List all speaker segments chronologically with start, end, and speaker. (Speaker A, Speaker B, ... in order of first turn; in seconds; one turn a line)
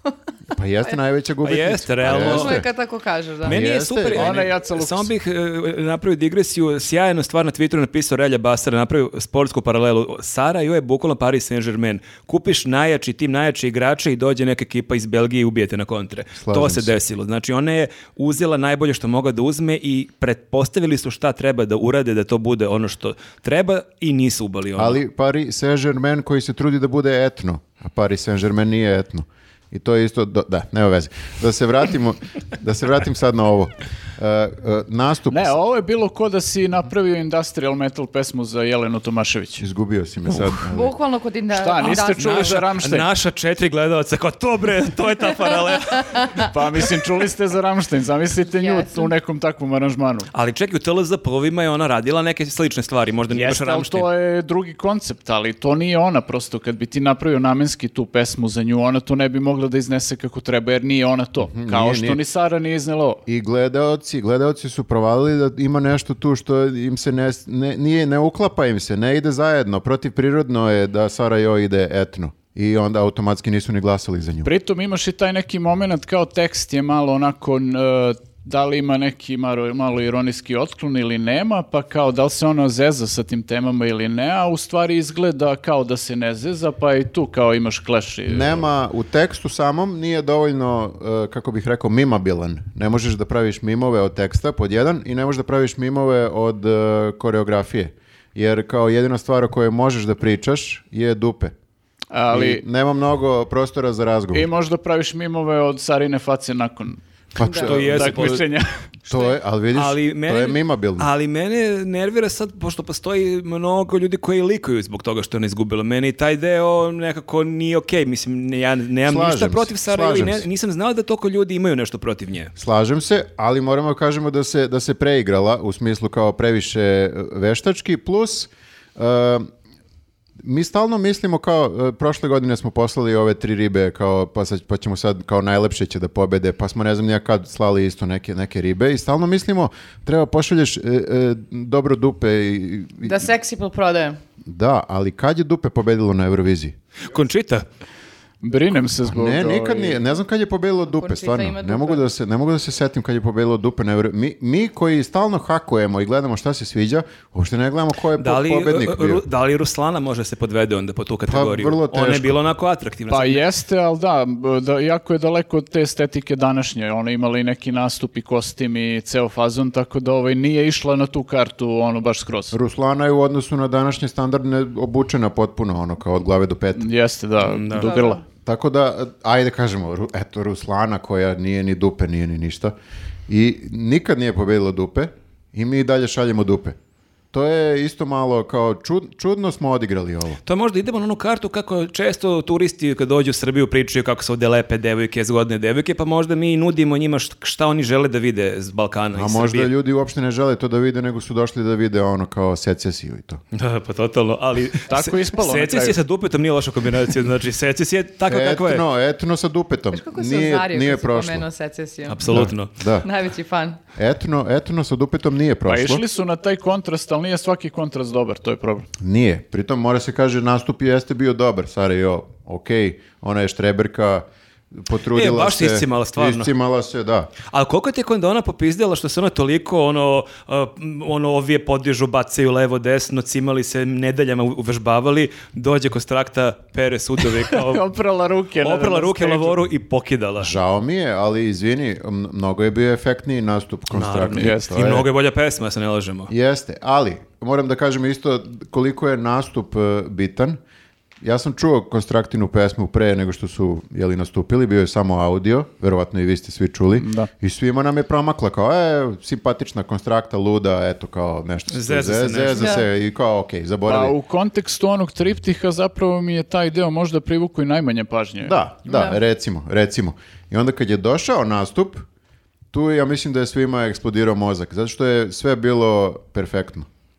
Speaker A: 0.5-2.7
Speaker B: 1.4-2.6
Speaker C: 2.0-3.6
Speaker A: 3.4-4.5
Speaker B: 3.4-25.0
Speaker D: 4.1-5.1
Speaker A: 16.4-16.9
Speaker A: 24.8-35.5
Speaker D: 35.3-39.6
Speaker A: 39.6-40.9
Speaker C: 40.7-42.6
Speaker D: 41.5-43.0
Speaker B: 41.8-46.3
Speaker C: 45.9-46.4
Speaker D: 46.4-50.3
Speaker C: 48.5-49.1
Speaker B: 50.3-54.1
Speaker D: 53.3-63.2
Speaker A: 61.4-62.2
Speaker A: 63.3-74.5
Speaker D: 74.4-88.7
Speaker A: 88.3-101.5
Speaker D: 102.1-102.6
Speaker A: 102.3-104.5
Speaker D: 104.3-107.0
Speaker A: 107.3-108.4
Speaker C: 107.4-107.7
Speaker B: 107.5-108.5
Speaker D: 107.6-108.7
Speaker A: 109.1-111.1
Speaker B: 109.7-122.5
Speaker A: 119.0-120.5
Speaker A: 122.5-129.5
Speaker A: 130.4-143.3
Speaker C: 143.0-144.2
Speaker A: 144.4-146.7
Speaker B: 147.1-147.7
Speaker D: 148.4-150.0
Speaker A: 149.1-159.2
Speaker C: 150.9-152.0
Speaker B: 158.2-163.4
Speaker A: 161.2-162.3
Speaker D: 163.1-172.6
Speaker A: 172.5-176.9
Speaker D: 176.8-178.2
Speaker B: 177.4-177.9
Speaker C: 177.7-178.2
Speaker A: 178.4-182.7
Speaker A: 183.3-186.8
Speaker A: 187.3-190.4
Speaker B: 190.4-199.7
Speaker A: 199.1-203.4
Speaker B: 203.5-208.8
Speaker D: 204.9-206.0
Speaker A: 208.3-211.4
Speaker C: 209.9-212.4
Speaker B: 212.1-212.7
Speaker A: 212.3-213.1
Speaker C: 213.0-213.8
Speaker A: 213.9-216.0
Speaker D: 215.7-218.9
Speaker A: 219.0-227.3
Speaker B: 225.1-226.5
Speaker B: 227.5-237.8
Speaker D: 237.5-239.6
Speaker B: 238.6-240.6
Speaker A: 240.4-245.1
Speaker B: 243.9-246.3
Speaker D: 244.3-245.0
Speaker A: 246.3-250.6
Speaker A: 251.2-264.1
Speaker D: 256.9-257.3
Speaker B: 261.7-262.7
Speaker C: 262.5-262.8
Speaker D: 263.9-268.5
Speaker A: 268.4-272.1
Speaker C: 268.9-269.2
Speaker A: 272.7-276.9